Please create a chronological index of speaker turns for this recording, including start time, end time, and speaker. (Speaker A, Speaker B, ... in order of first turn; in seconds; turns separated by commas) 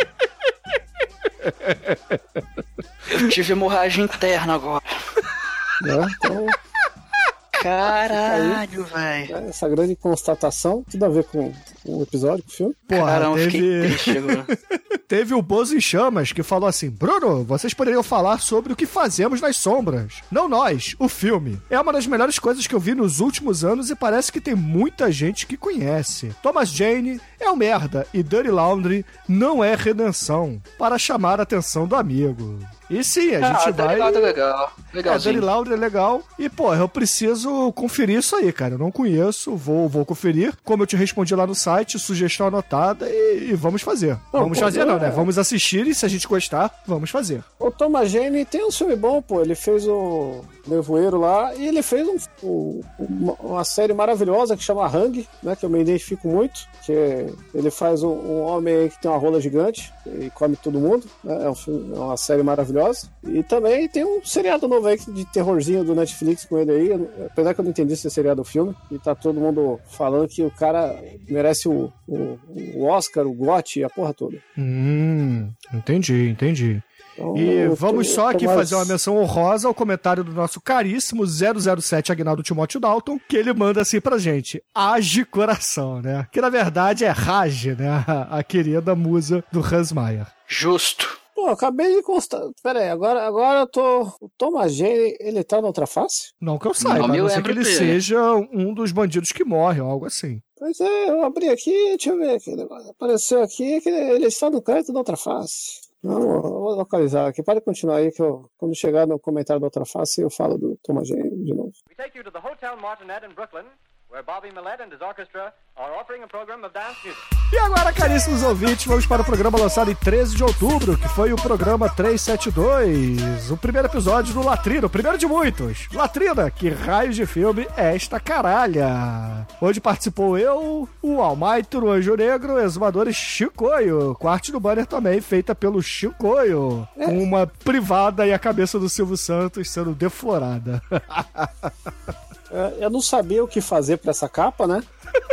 Speaker A: 1.4-2.2, Speaker B: 3.1-4.8, Speaker C: 5.8-6.6, Speaker B: 7.5-9.3, Speaker C: 8.2-8.6, Speaker C: 9.3-12.8, Speaker A: 12.9-34.4, Speaker B: 12.9-14.5, Speaker B: 33.4-35.5, Speaker A: 35.0-47.5, Speaker C: 44.3-45.3, Speaker C: 47.6-74.4, Speaker A: 74.6-90.3, Speaker C: 77.2-79.0, Speaker B: 90.5-91.2, Speaker C: 91.4-96.3, Speaker A: 96.4-100.4, Speaker B: 96.8-98.0, Speaker C: 100.6-111.7, Speaker D: 111.9-117.2, Speaker A: 117.5-141.7, Speaker C: 137.0-137.2, Speaker C: 142.5-144.9